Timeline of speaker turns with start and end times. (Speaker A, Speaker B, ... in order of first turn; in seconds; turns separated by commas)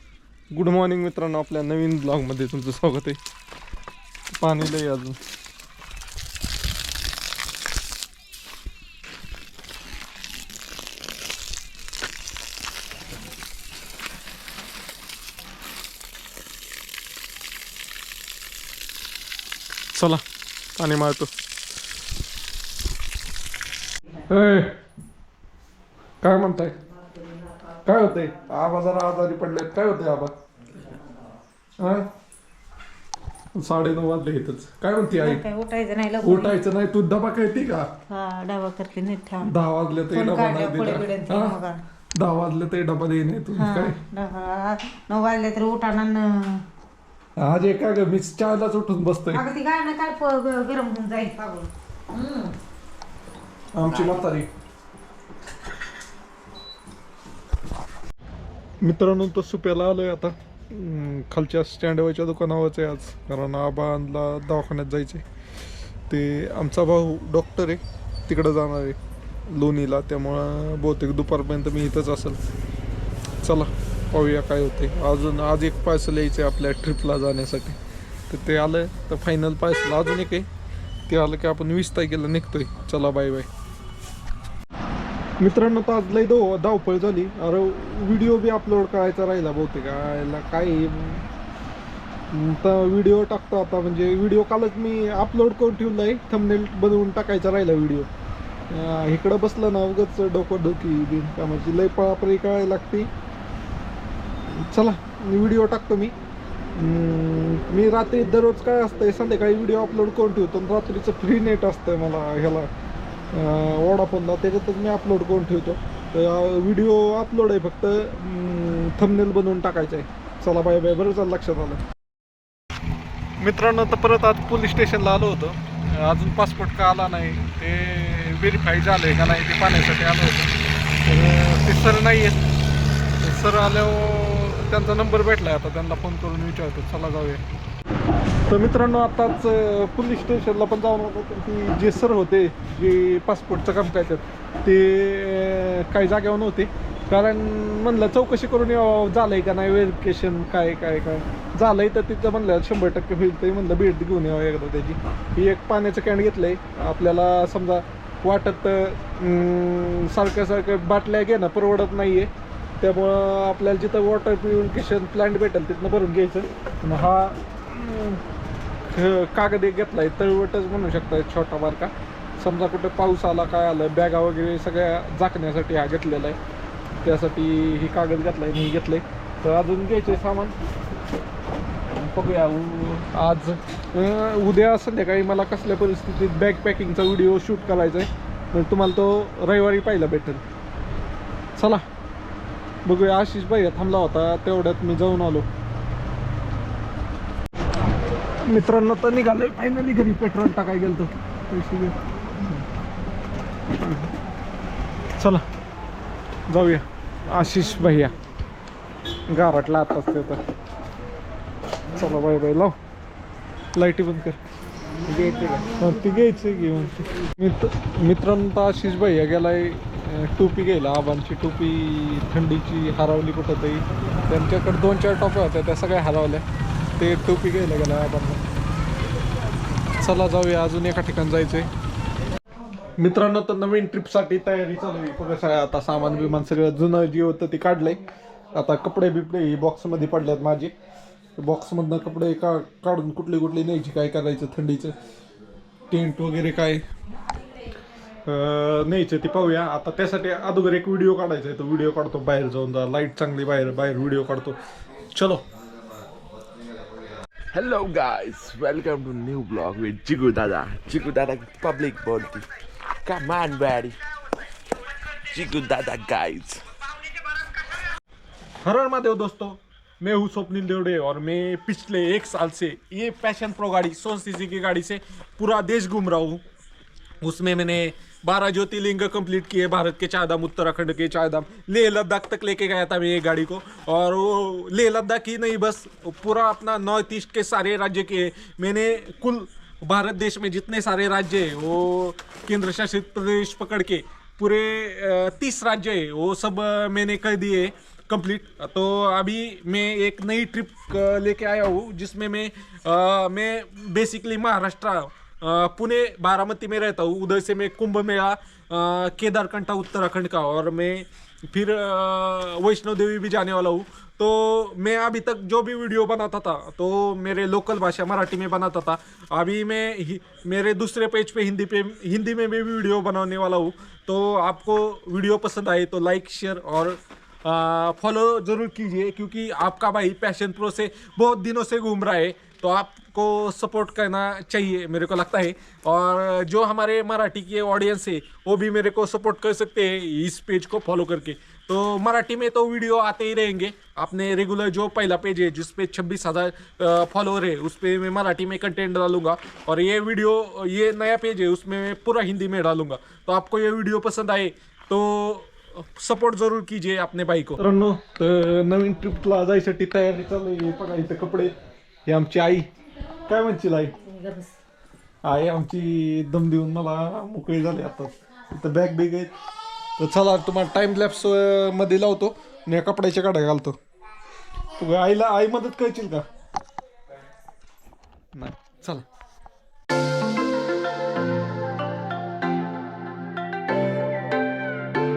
Speaker A: 0.5-3.2, Speaker A: 4.3-5.2, Speaker A: 19.9-20.2, Speaker A: 20.8-21.3, Speaker A: 24.3-24.8, Speaker A: 26.2-26.7, Speaker A: 27.8-30.3, Speaker A: 31.8-32.1, Speaker A: 33.5-35.5, Speaker B: 35.2-36.6, Speaker A: 36.2-37.9, Speaker B: 38.1-39.5, Speaker A: 39.4-41.6, Speaker B: 40.1-41.8, Speaker A: 42.2-44.0, Speaker B: 43.5-46.6, Speaker A: 47.4-49.4, Speaker B: 49.3-52.5, Speaker A: 53.8-54.5, Speaker A: 58.8-65.2, Speaker A: 66.1-69.0, Speaker A: 69.5-72.4, Speaker A: 73.4-77.8, Speaker A: 78.3-80.5, Speaker A: 81.1-83.5, Speaker A: 85.4-91.2, Speaker A: 92.3-98.1, Speaker A: 98.7-103.1, Speaker A: 104.5-106.2, Speaker A: 106.8-112.7, Speaker A: 113.3-121.8, Speaker A: 123.4-130.5, Speaker A: 131.0-132.4, Speaker A: 133.2-137.4, Speaker A: 138.5-162.3, Speaker A: 162.8-168.2, Speaker A: 168.9-176.4, Speaker A: 177.0-180.5, Speaker A: 181.9-190.4, Speaker A: 191.6-191.8, Speaker A: 192.8-195.5, Speaker A: 198.4-202.6, Speaker A: 203.8-204.1, Speaker A: 205.2-205.4, Speaker A: 206.5-208.1, Speaker A: 209.3-210.4, Speaker A: 211.9-212.8, Speaker A: 213.7-214.4, Speaker A: 215.1-226.4, Speaker A: 227.0-228.4, Speaker A: 230.0-231.7, Speaker A: 233.0-238.0, Speaker A: 238.5-240.7, Speaker A: 241.4-244.9, Speaker A: 245.9-246.8, Speaker A: 248.2-254.6, Speaker A: 255.1-255.4, Speaker C: 257.5-262.5, Speaker C: 263.0-264.0, Speaker C: 265.3-266.6, Speaker A: 268.6-276.4, Speaker A: 277.2-361.5, Speaker A: 362.1-362.7, Speaker A: 363.3-363.9, Speaker B: 364.0-364.5, Speaker A: 365.2-369.3, Speaker A: 370.0-373.8, Speaker A: 374.8-376.2, Speaker A: 378.3-379.0